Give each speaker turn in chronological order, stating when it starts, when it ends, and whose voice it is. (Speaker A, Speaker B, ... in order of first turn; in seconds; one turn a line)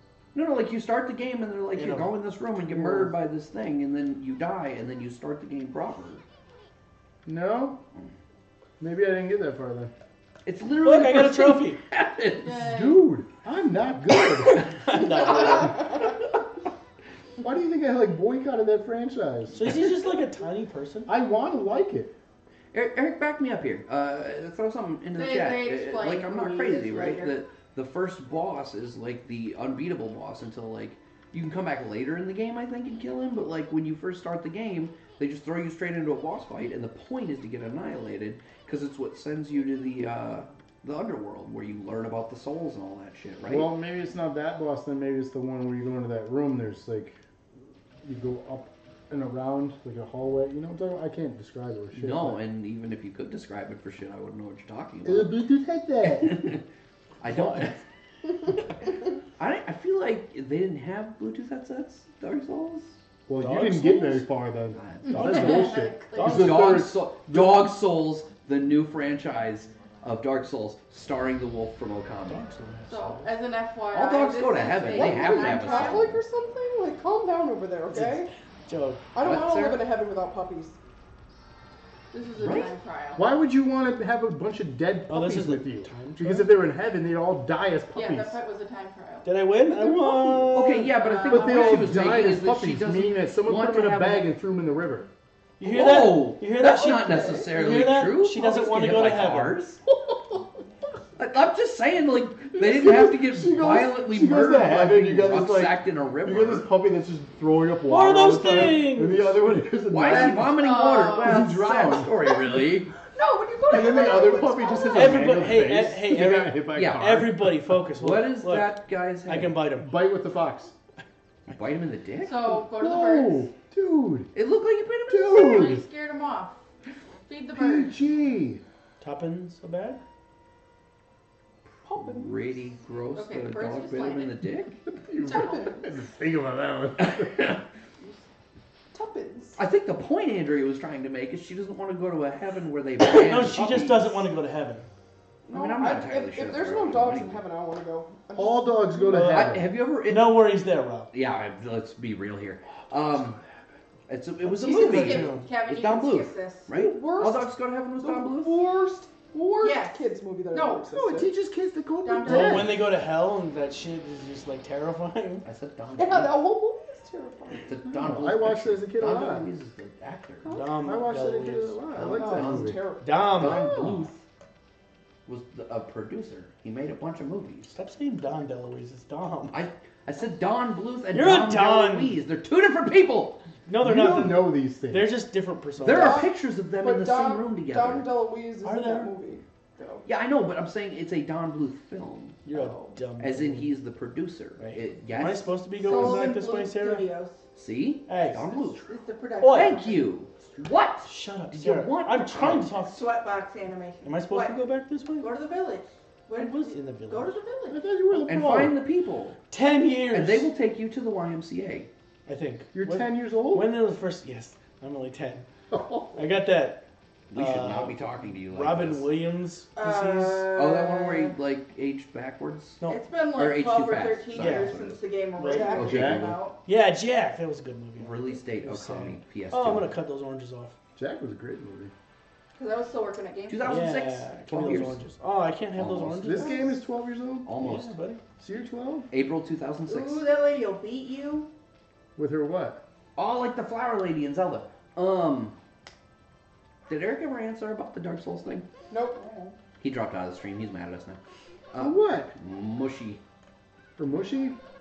Speaker A: 0.3-6.2
Speaker B: 1.7-2.2
Speaker C: 2.6-3.1
Speaker C: 7.2-7.8
Speaker C: 8.8-9.9
Speaker A: 10.4-12.5
Speaker B: 10.8-11.8
Speaker D: 12.4-13.1
Speaker C: 12.6-15.1
Speaker B: 14.8-15.9
Speaker A: 14.9-16.1
Speaker C: 17.4-19.8
Speaker B: 19.5-21.1
Speaker C: 21.1-22.1
Speaker A: 22.7-43.7
Speaker D: 25.1-27.4
Speaker C: 43.5-47.2
Speaker C: 48.0-52.4
Speaker A: 51.9-55.5
Speaker C: 55.0-56.5
Speaker A: 56.0-56.6
Speaker B: 57.2-57.8
Speaker A: 57.2-57.8
Speaker A: 59.4-63.0
Speaker C: 63.3-67.7
Speaker B: 63.4-64.2
Speaker A: 64.7-72.4
Speaker D: 65.1-66.5
Speaker B: 65.1-67.0
Speaker B: 72.3-73.3
Speaker D: 72.9-76.1
Speaker A: 73.9-76.2
Speaker E: 74.9-78.3
Speaker B: 77.9-79.1
Speaker E: 79.1-80.8
Speaker A: 79.2-79.8
Speaker D: 82.1-83.3
Speaker A: 82.4-82.7
Speaker C: 83.2-88.4
Speaker B: 85.1-86.5
Speaker D: 87.9-89.3
Speaker B: 89.2-90.9
Speaker E: 89.8-90.5
Speaker A: 90.5-94.3
Speaker D: 90.8-92.1
Speaker C: 91.3-95.1
Speaker B: 95.6-99.6
Speaker A: 95.6-99.8
Speaker A: 101.2-106.7
Speaker C: 102.5-112.3
Speaker B: 107.9-109.5
Speaker A: 108.4-108.7
Speaker A: 109.9-112.9
Speaker D: 110.1-111.5
Speaker E: 113.1-115.4
Speaker C: 113.7-117.5
Speaker B: 114.9-119.9
Speaker A: 116.7-117.2
Speaker A: 118.0-119.6
Speaker C: 119.8-120.7
Speaker A: 121.5-122.5
Speaker D: 122.2-123.5
Speaker C: 122.7-124.3
Speaker A: 124.3-125.8
Speaker C: 125.1-125.8
Speaker D: 125.2-126.6
Speaker D: 127.3-128.0
Speaker C: 127.5-128.6
Speaker B: 129.0-130.0
Speaker A: 131.8-134.8
Speaker E: 131.9-132.5
Speaker D: 133.1-134.4
Speaker C: 134.8-137.4
Speaker E: 135.2-135.8
Speaker D: 135.2-135.7
Speaker A: 137.0-137.6
Speaker E: 138.9-139.6
Speaker A: 139.6-144.3
Speaker B: 143.0-144.9
Speaker E: 145.4-149.3
Speaker A: 145.5-147.4
Speaker C: 148.3-149.7
Speaker B: 149.1-151.1
Speaker A: 149.3-150.5
Speaker A: 151.1-153.4
Speaker A: 154.1-158.6
Speaker D: 154.5-156.7
Speaker B: 154.6-155.5
Speaker E: 156.7-161.3
Speaker D: 159.6-161.0
Speaker C: 161.0-162.8
Speaker D: 162.0-162.8
Speaker B: 162.2-165.4
Speaker A: 165.4-166.4
Speaker E: 166.0-167.7
Speaker A: 167.6-170.5
Speaker C: 167.8-169.5
Speaker B: 170.5-171.8
Speaker C: 170.8-172.8
Speaker A: 171.9-172.8
Speaker E: 172.0-173.9
Speaker B: 173.0-173.8
Speaker A: 173.3-174.1
Speaker C: 173.4-174.1
Speaker A: 175.2-177.7
Speaker B: 177.7-179.6
Speaker A: 179.5-183.4
Speaker B: 181.1-182.1
Speaker B: 183.7-186.3
Speaker C: 183.8-185.1
Speaker A: 185.8-188.1
Speaker E: 185.8-190.1
Speaker B: 188.6-189.1
Speaker A: 190.0-196.3
Speaker B: 192.4-193.7
Speaker B: 194.6-197.1
Speaker D: 195.8-197.4
Speaker A: 197.5-198.9
Speaker B: 198.1-198.6
Speaker D: 198.8-200.0
Speaker B: 199.4-199.8
Speaker A: 199.4-202.7
Speaker B: 201.0-203.1
Speaker D: 202.7-204.6
Speaker B: 204.0-205.3
Speaker D: 205.2-207.8
Speaker B: 206.3-207.4
Speaker C: 207.7-208.8
Speaker A: 208.2-209.4
Speaker B: 209.5-210.5
Speaker A: 210.1-211.9
Speaker B: 212.2-215.5
Speaker C: 212.7-213.7
Speaker C: 215.7-216.2
Speaker B: 216.1-220.5
Speaker A: 217.3-219.1
Speaker D: 219.7-221.3
Speaker A: 220.5-222.8
Speaker D: 222.8-226.6
Speaker A: 223.3-225.0
Speaker B: 224.3-224.8
Speaker B: 225.4-225.8
Speaker E: 225.4-226.2
Speaker A: 225.7-226.4
Speaker C: 225.8-226.4
Speaker B: 226.6-230.8
Speaker A: 228.0-229.9
Speaker C: 230.9-231.9
Speaker D: 232.5-233.9
Speaker A: 233.5-235.0
Speaker B: 233.6-236.7
Speaker A: 235.7-236.6
Speaker C: 236.2-237.5
Speaker A: 237.4-237.9
Speaker B: 237.6-238.2
Speaker C: 238.4-239.1
Speaker A: 239.1-240.2
Speaker D: 239.8-241.5
Speaker C: 242.2-242.8
Speaker A: 243.2-245.5
Speaker A: 246.9-248.7
Speaker E: 248.9-249.2
Speaker D: 249.1-249.5
Speaker A: 249.8-251.2
Speaker A: 251.7-253.2
Speaker C: 251.8-252.3
Speaker C: 254.0-254.6